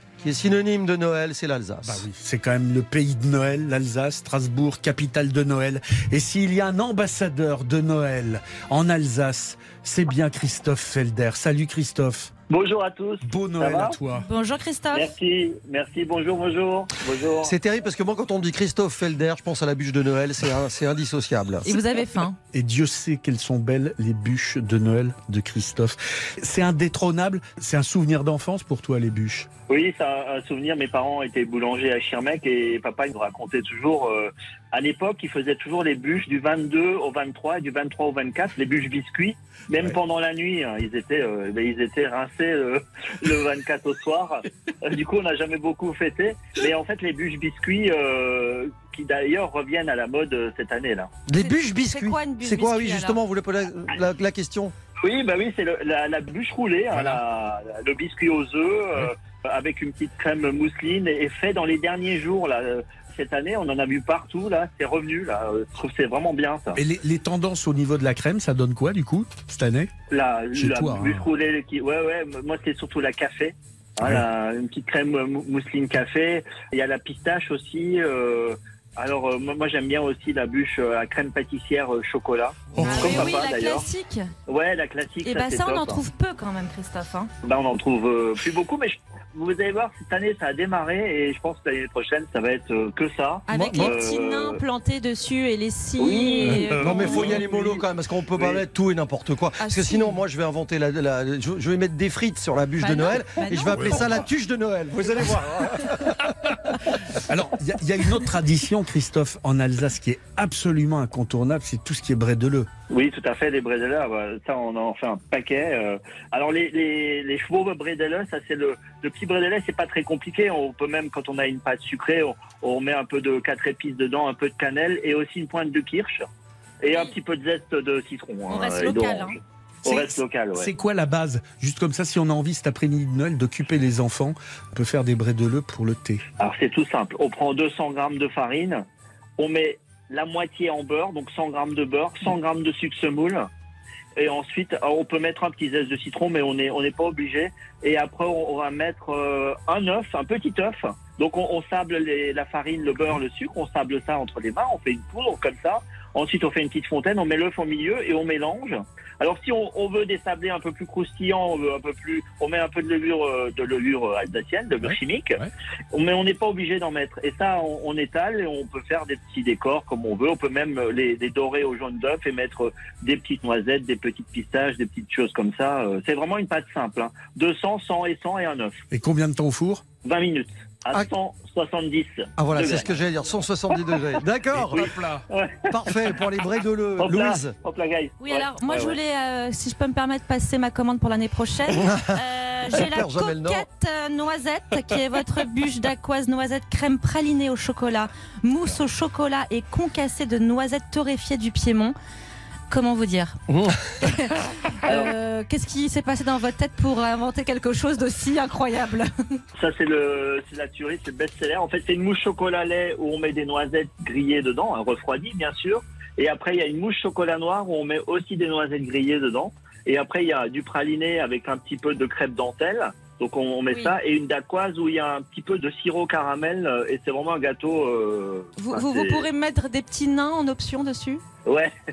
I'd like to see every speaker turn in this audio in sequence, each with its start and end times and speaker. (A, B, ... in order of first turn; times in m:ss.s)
0:00.2-0:02.0 A
0:01.8-0:12.3 B
0:12.5-0:14.0 C
0:13.2-0:14.3 B
0:14.2-0:15.1 D
0:14.9-0:17.5 C
0:17.4-0:21.7 A
0:21.6-0:22.4 D
0:22.5-0:29.5 B
0:29.7-0:51.1 C
0:51.3-0:54.7 A
0:51.4-0:53.2 D
0:55.0-1:06.8 C
0:56.9-0:57.2 B
1:06.8-1:09.9 B
1:10.1-1:23.9 C
1:10.6-1:11.3 B
1:14.0-1:14.3 B
1:22.7-1:23.4 B
1:22.8-1:24.3 D
1:24.5-1:26.0 C
1:25.2-1:27.3 D
1:27.4-1:34.6 C
1:33.5-1:37.4 D
1:33.5-1:34.0 A
1:36.0-1:37.8 C
1:36.4-1:37.5 B
1:36.7-1:46.2 A
1:39.6-1:40.2 D
1:42.8-1:44.0 D
1:47.2-1:52.7 B
1:52.9-2:06.3 C
2:06.8-2:10.7 C
2:08.5-2:09.4 D
2:09.9-2:16.2 B
2:16.4-2:18.8 C
2:19.4-2:23.5 C
2:24.2-2:45.4 C
2:44.8-2:45.5 B
2:45.9-2:58.8 C
2:58.9-2:59.9 B
3:00.0-3:03.0 C
3:02.4-3:04.9 A
3:04.5-3:05.2 B
3:04.7-3:06.1 C
3:05.7-3:07.6 A
3:07.0-3:09.0 C
3:08.2-3:22.0 D
3:11.7-3:12.2 A
3:12.7-3:13.7 A
3:22.7-3:23.4 D
3:23.5-3:23.8 A
3:24.0-3:29.1 D
3:29.6-3:49.3 C
3:43.7-3:44.0 D
3:48.6-3:51.2 D
3:51.5-3:51.7 C